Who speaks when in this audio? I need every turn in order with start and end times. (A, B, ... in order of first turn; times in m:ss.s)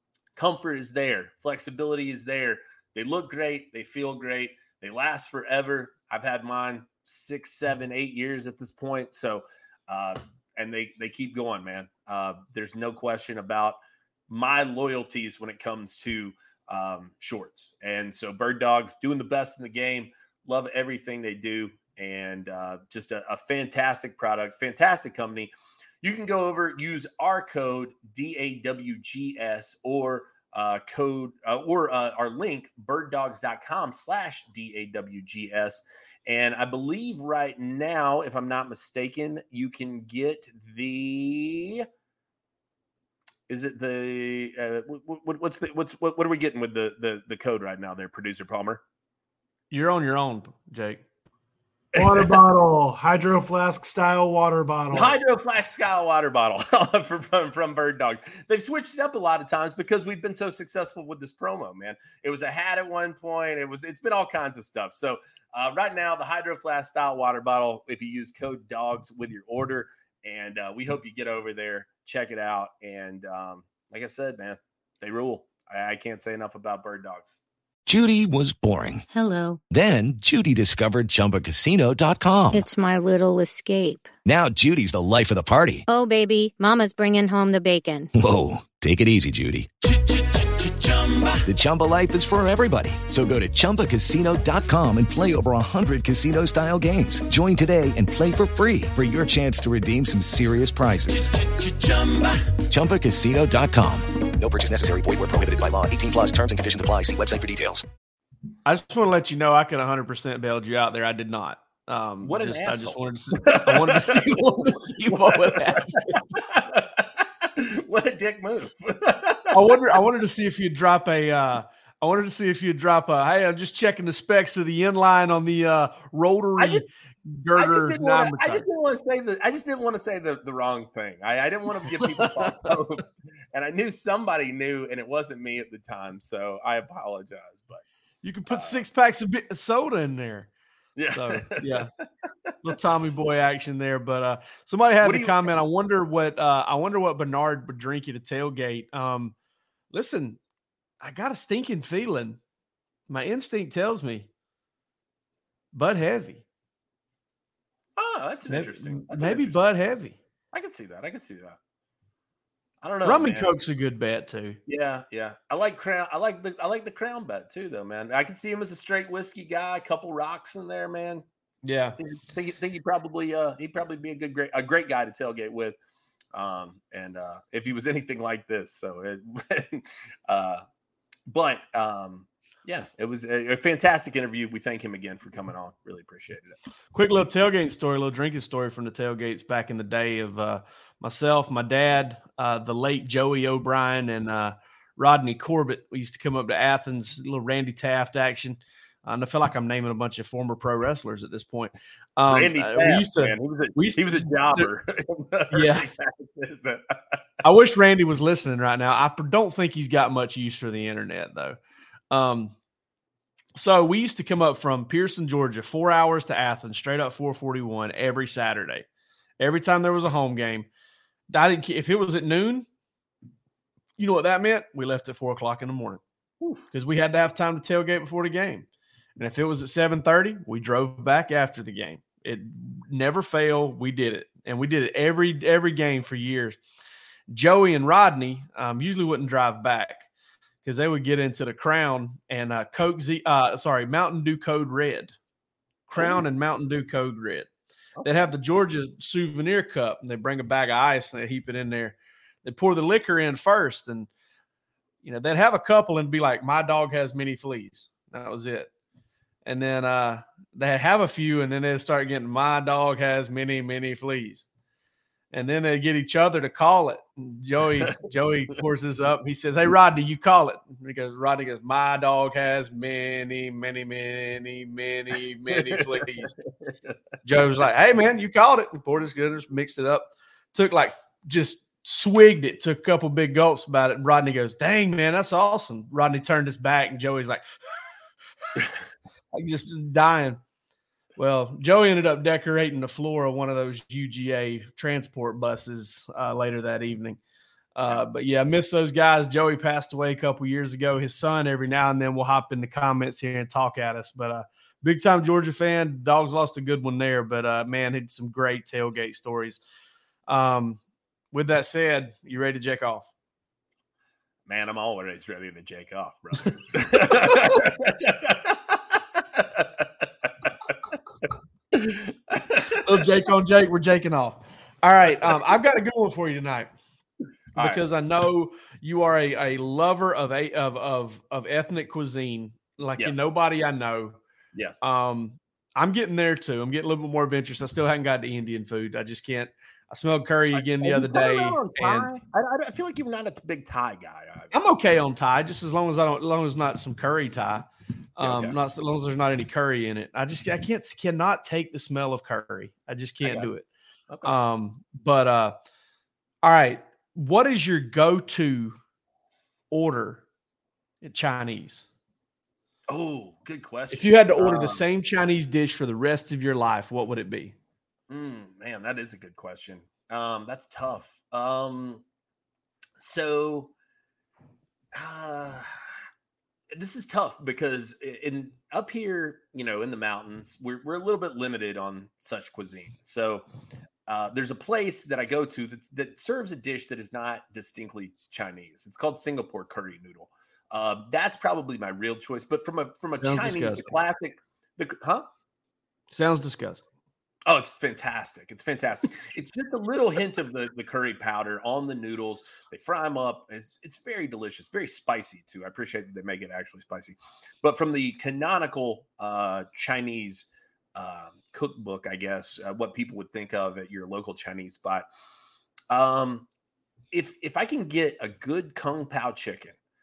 0:00.4-0:25.5 A
0:26.0-0:41.8 A
0:43.5-0:48.8 A
0:49.7-0:51.0 B
0:51.9-0:52.4 A
0:51.9-0:55.2 C
0:54.9-1:17.4 A
1:17.8-1:19.0 D
1:19.1-1:19.6 E
1:19.7-1:22.6 D
1:22.5-1:24.1 E
1:24.2-1:25.8 D
1:25.9-1:28.1 E
1:28.2-1:29.7 D
1:29.8-1:31.4 C
1:31.5-1:41.2 D
1:41.2-1:42.5 C
1:42.7-1:47.8 D
1:48.6-1:56.2 B
1:52.2-1:59.8 A
1:59.5-2:08.6 B
2:06.6-2:06.8 A
2:07.6-2:17.8 A
2:12.0-2:12.8 B
2:18.2-2:20.5 B
2:18.5-2:18.8 A
2:21.0-2:21.9 A
2:21.1-2:21.9 B
2:22.6-2:29.3 B
2:25.0-2:25.5 A
2:29.9-2:30.4 B
2:31.0-2:32.4 B
2:33.1-2:34.3 B
2:35.7-2:36.4 B
2:38.0-2:39.6 A
2:38.5-2:40.2 B
2:40.5-2:41.6 A
2:42.8-2:43.5 A
2:43.0-2:44.6 B
2:44.7-2:51.2 A
2:51.6-2:52.0 B
2:52.0-2:55.8 A
2:56.3-3:00.6 A
3:01.3-3:06.6 A
3:06.9-3:24.7 B
3:22.3-3:27.2 A
3:25.5-3:25.9 B
3:27.4-3:31.6 B
3:32.1-3:32.5 B
3:33.5-3:38.8 B
3:39.4-3:40.7 B
3:41.3-3:42.6 B
3:44.0-3:46.0 B
3:46.7-3:48.6 B
3:49.2-3:56.6 B
3:57.3-4:00.1 B
4:00.6-4:05.1 B
4:05.9-4:07.5 B
4:06.0-4:06.2 A
4:08.0-4:08.3 A
4:08.0-4:14.1 B
4:15.0-4:18.7 B
4:19.4-4:24.4 B
4:25.3-4:36.3 B
4:35.5-4:36.9 A
4:37.2-4:47.4 B
4:49.3-4:50.4 B
4:51.2-4:57.2 B
4:57.7-5:09.6 B
5:10.3-5:10.8 B
5:11.3-5:13.1 B
5:14.5-5:18.6 A
5:19.3-5:20.7 A
5:21.7-5:23.0 A
5:22.8-5:26.7 B
5:25.1-5:25.4 A
5:27.5-5:27.9 A
5:27.6-5:34.2 B
5:34.5-5:34.8 A
5:34.8-5:42.1 B
5:40.5-5:44.5 A
5:44.5-5:53.6 B
5:48.2-5:48.6 A
5:53.2-5:53.5 A
5:54.1-5:54.3 A
5:54.2-5:55.5 B
5:56.4-5:58.8 B
5:59.7-6:00.2 B
6:01.0-6:01.8 B
6:02.9-6:04.8 A
6:03.9-6:07.5 B
6:08.1-6:12.0 A
6:13.0-6:13.7 A
6:14.9-6:15.8 A
6:16.7-6:23.4 A
6:24.1-6:35.3 A
6:33.2-6:34.0 B
6:36.1-6:36.8 B
6:37.5-6:55.1 A
6:55.9-6:56.5 A
6:57.1-6:59.8 A